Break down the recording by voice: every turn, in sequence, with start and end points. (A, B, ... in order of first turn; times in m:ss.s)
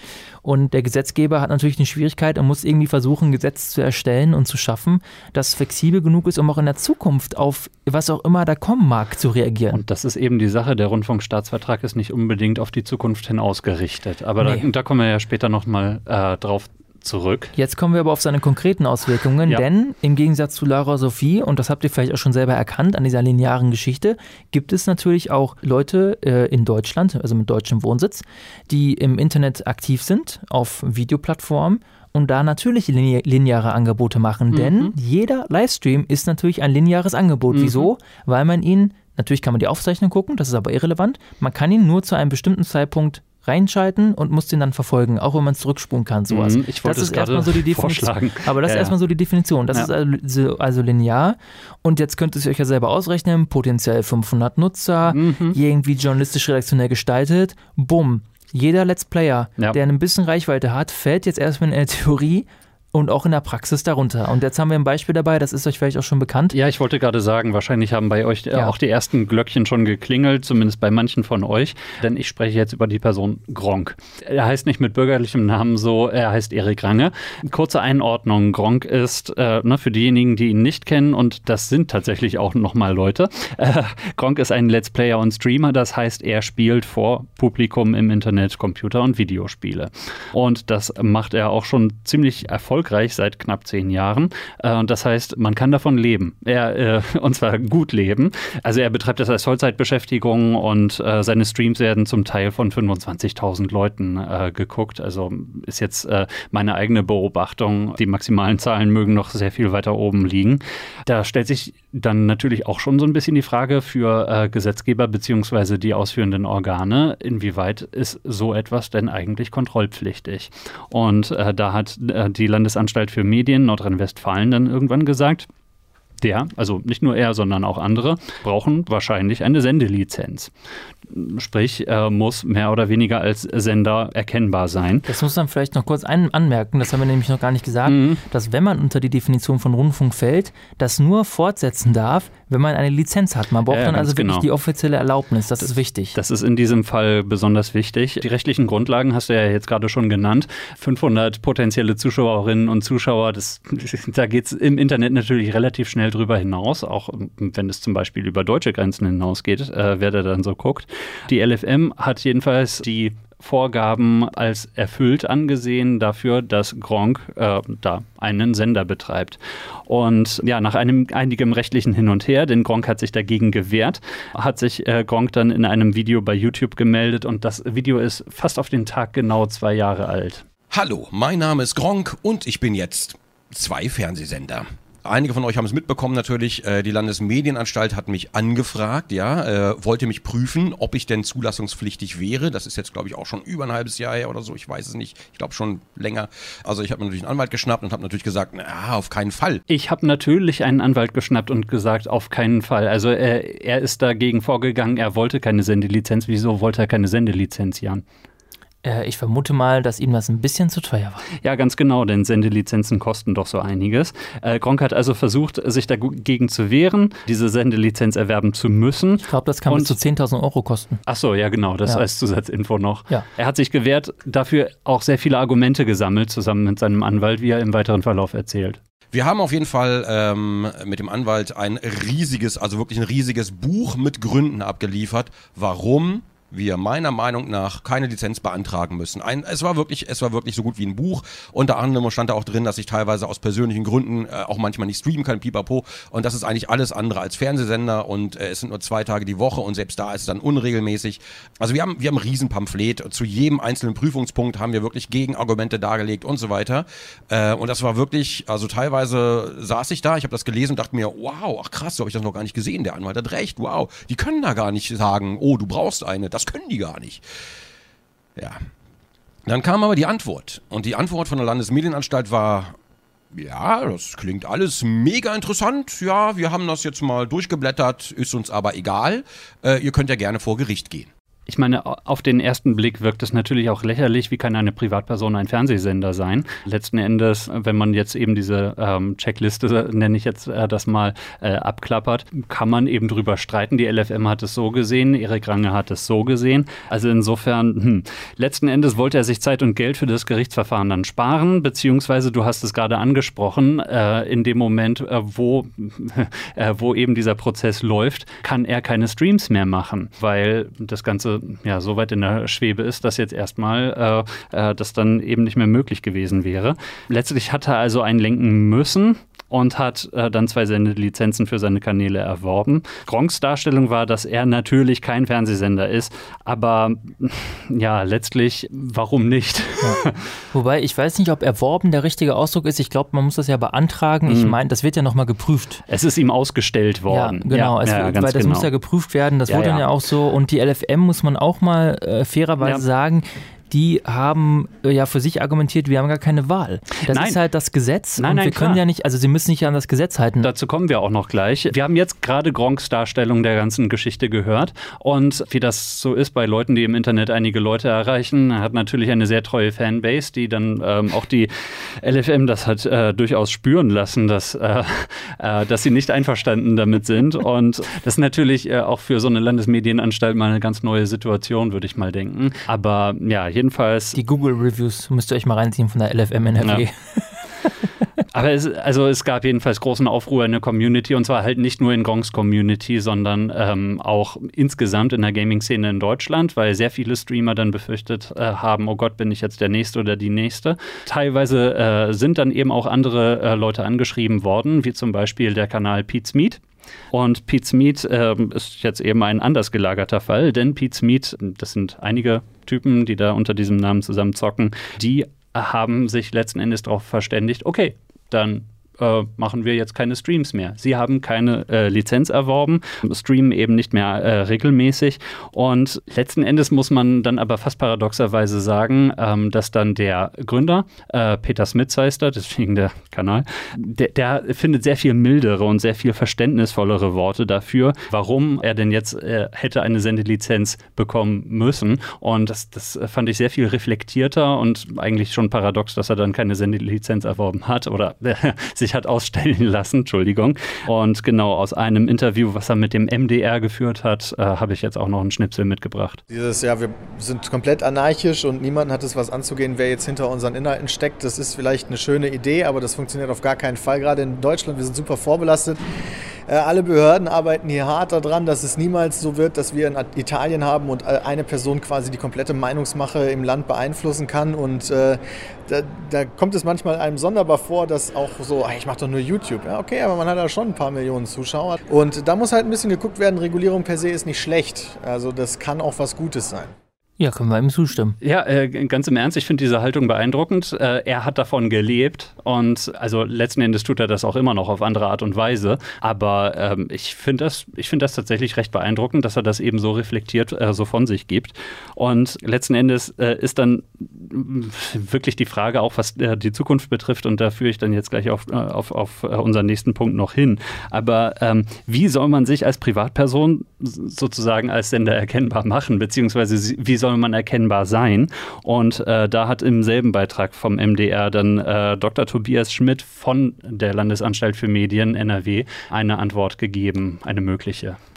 0:00.4-0:09.8 A
0:09.7-0:17.5 B
0:14.4-0:14.7 A
0:17.6-1:06.6 A
0:34.5-0:34.9 B
0:37.5-0:37.9 B
0:46.3-0:48.9 B
0:55.1-0:55.6 B
1:06.5-2:05.5 B
2:06.2-2:10.5 B
2:11.1-2:15.1 B
2:15.0-2:26.2 A
2:17.8-2:18.2 B
2:23.7-2:24.5 B
2:25.6-3:00.4 B
3:00.7-3:19.6 C
3:19.7-3:28.0 B
3:28.8-3:31.2 A
3:31.4-3:40.0 B
3:39.2-3:41.0 A
3:41.0-3:48.8 B
3:49.1-4:27.2 C
4:29.4-4:32.7 C
4:33.3-4:41.1 C
4:41.5-5:30.3 B
5:30.5-5:35.8 A
5:34.3-5:34.6 B
5:35.9-5:38.7 B
5:37.1-5:50.5 A
5:39.5-5:39.9 B
5:47.1-5:47.4 B
5:48.2-5:48.8 B
5:50.4-6:14.2 B
6:14.1-6:17.2 A
6:18.3-7:26.2 B
7:26.3-7:35.8 D
7:36.5-7:56.7 D
7:57.2-7:58.2 A
7:58.2-8:38.0 B